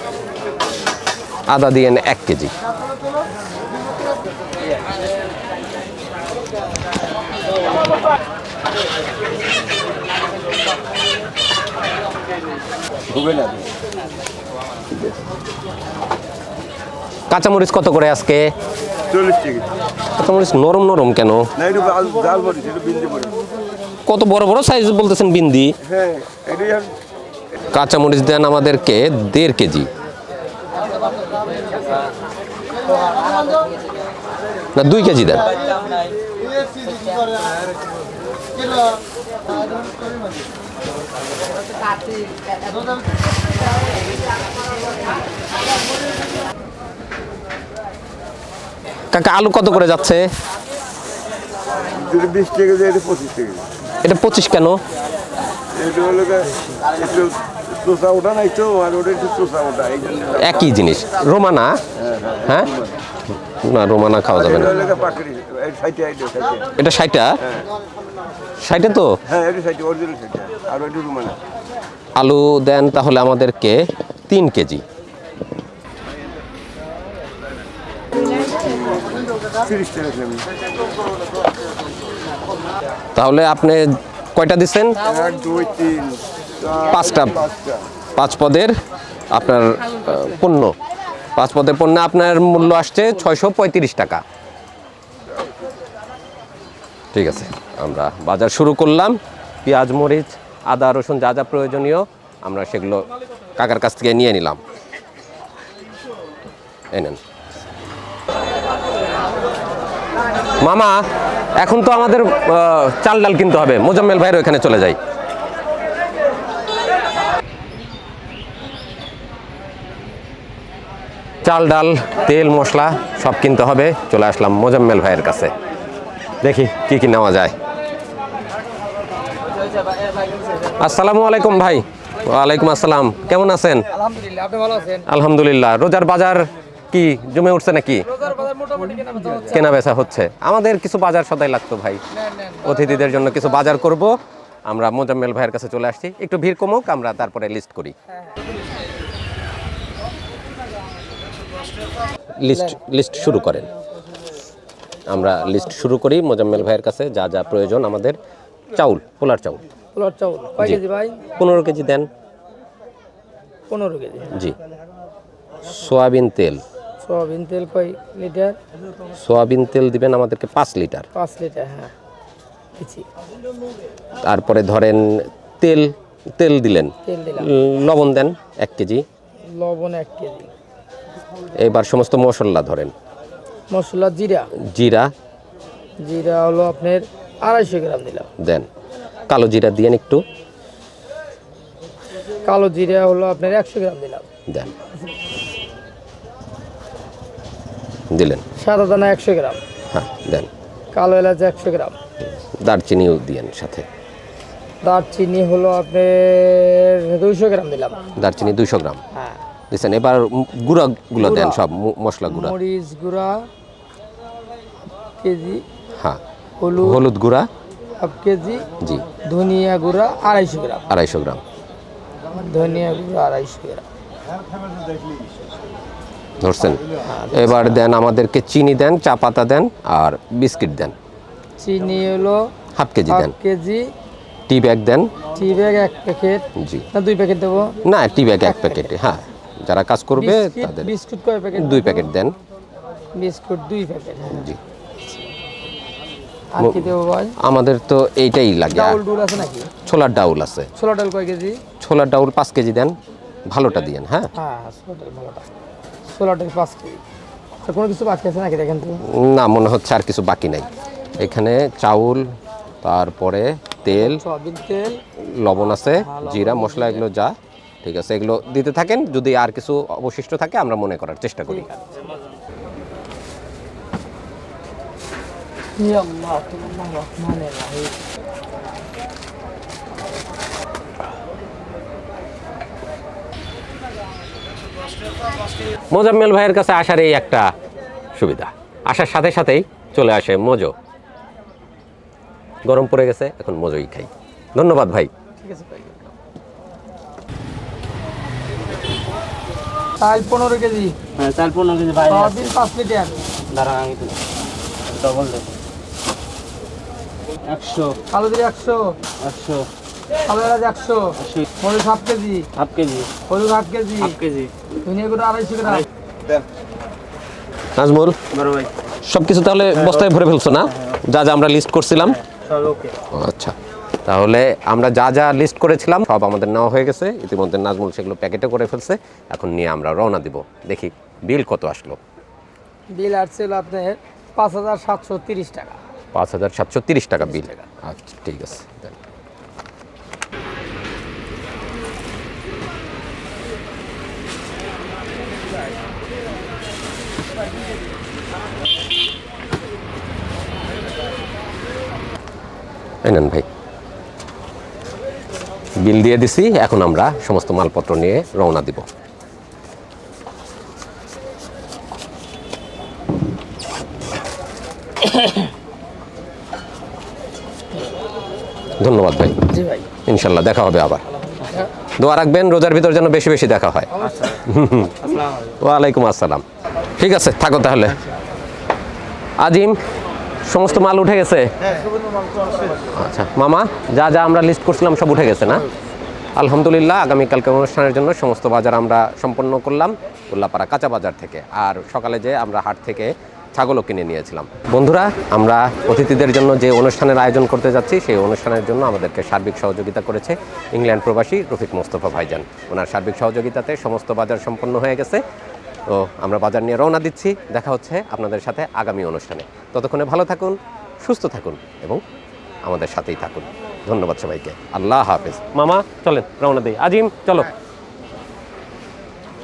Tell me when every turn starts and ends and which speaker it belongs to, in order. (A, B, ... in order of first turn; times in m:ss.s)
0:01.5-0:02.5 A
0:13.1-0:13.7 B
0:17.3-0:18.5 A
0:19.1-0:19.7 B
0:20.2-0:21.5 A
0:21.6-0:23.4 B
0:24.1-0:25.7 A
0:25.8-0:26.9 B
0:27.7-0:29.9 A
0:34.8-0:35.5 A
0:49.1-0:50.2 A
0:52.0-0:53.6 B
0:54.0-0:54.8 A
0:55.8-1:00.7 B
1:00.4-1:01.7 A
1:02.0-1:02.9 B
1:02.5-1:02.7 A
1:03.5-1:04.8 A
1:04.3-1:06.6 B
1:06.8-1:07.3 A
1:08.6-1:09.1 A
1:09.3-1:11.4 B
1:12.2-1:14.8 A
1:18.1-1:20.4 B
1:23.2-1:25.0 A
1:25.0-1:27.9 B
1:26.9-1:27.5 A
1:28.2-1:28.8 A
1:29.3-1:30.7 A
1:31.4-1:34.2 A
1:37.1-1:43.1 A
1:43.6-1:44.6 A
1:46.9-1:47.2 A
1:50.6-1:51.0 A
1:51.6-1:55.0 A
2:01.4-2:05.5 A
2:06.4-2:07.5 A
2:10.8-2:13.9 A
2:14.0-2:15.0 C
2:15.1-2:18.0 A
2:18.1-2:19.6 C
2:19.4-2:24.2 A
2:24.7-2:28.0 A
2:32.4-2:33.7 A
2:35.1-2:38.2 A
2:38.7-2:39.6 A
2:40.0-2:41.2 C
2:41.4-2:42.1 A
2:43.7-2:44.3 C
2:45.6-2:46.6 A
2:47.0-2:48.6 C
2:49.1-2:51.1 A
2:51.1-2:51.9 C
2:52.8-2:53.1 C
2:54.2-2:59.1 A
2:57.0-2:57.5 C
2:59.6-3:00.5 C
3:01.6-3:02.9 A
3:03.7-3:04.5 C
3:04.6-3:05.1 A
3:06.0-3:08.3 C
3:08.4-3:08.7 A
3:09.3-3:10.2 A
3:12.4-3:14.2 C
3:14.5-3:14.7 A
3:18.1-3:18.4 A
3:18.6-3:19.6 C
3:19.9-3:20.5 A
3:20.9-3:22.0 C
3:22.6-3:23.9 A
3:24.8-3:28.0 C
3:28.2-3:29.0 A
3:29.1-3:29.4 C
3:29.7-3:32.6 A
3:31.2-3:31.6 C
3:32.3-3:33.5 C
3:35.2-3:35.6 C
3:36.6-3:37.0 C
3:36.8-3:37.5 A
3:38.0-3:38.7 C
3:39.2-3:40.8 C
3:40.9-3:41.4 A
3:42.3-3:43.9 C
3:46.4-3:51.0 A
3:47.0-3:47.7 C
3:51.6-3:52.5 C
3:52.8-3:53.3 A
3:53.1-3:53.9 C
3:54.5-3:55.1 A
3:55.3-3:57.8 C
3:56.6-3:56.9 A
3:57.8-4:00.9 A
3:58.4-3:58.9 C
4:00.2-4:02.1 C
4:01.6-4:02.4 A
4:03.2-4:04.5 C
4:04.3-4:04.6 A
4:06.5-4:07.4 C
4:06.6-4:09.0 A
4:08.7-4:09.7 C
4:09.8-4:10.7 A
4:10.8-4:11.6 C
4:11.8-4:13.0 A
4:13.5-4:14.3 A
4:14.4-4:15.5 C
4:16.1-4:17.0 C
4:17.6-4:19.0 C
4:19.1-4:22.2 A
4:22.8-4:24.2 A
4:23.9-4:25.0 C
4:25.2-4:31.7 A
4:26.0-4:27.0 C
4:31.5-4:32.1 C
4:35.8-4:38.0 C
4:45.9-4:47.5 A
4:48.2-4:50.7 A
4:52.7-4:55.1 A
4:55.4-4:56.1 C
5:00.0-5:01.0 C
5:01.2-5:02.3 D
5:02.0-5:03.2 C
5:03.5-5:04.1 D
5:04.9-5:05.5 D
5:07.5-5:08.0 D
5:08.1-5:09.0 C
5:09.2-5:09.6 D
5:10.3-5:12.5 C
5:12.6-5:13.1 D
5:13.2-5:14.2 C
5:14.2-5:14.5 D
5:14.8-5:15.8 C
5:17.8-5:18.2 A
5:18.4-5:18.7 D
5:19.0-5:22.2 A
5:22.5-5:22.9 D
5:23.1-5:23.5 A
5:24.0-5:32.0 A
5:32.9-5:35.8 C
5:36.1-5:39.0 A
5:37.2-5:37.6 C
5:53.0-5:53.5 A
5:55.8-5:58.9 A
6:08.8-6:09.4 A
6:09.5-6:09.9 C
6:10.1-6:11.0 A
6:12.0-6:16.4 A
6:14.0-6:14.3 C
6:17.0-6:18.0 A
6:19.4-6:19.8 A
6:20.5-6:21.5 A
6:22.9-6:25.7 A
6:26.4-6:45.2 A
6:45.9-6:52.0 A
6:52.6-6:57.5 A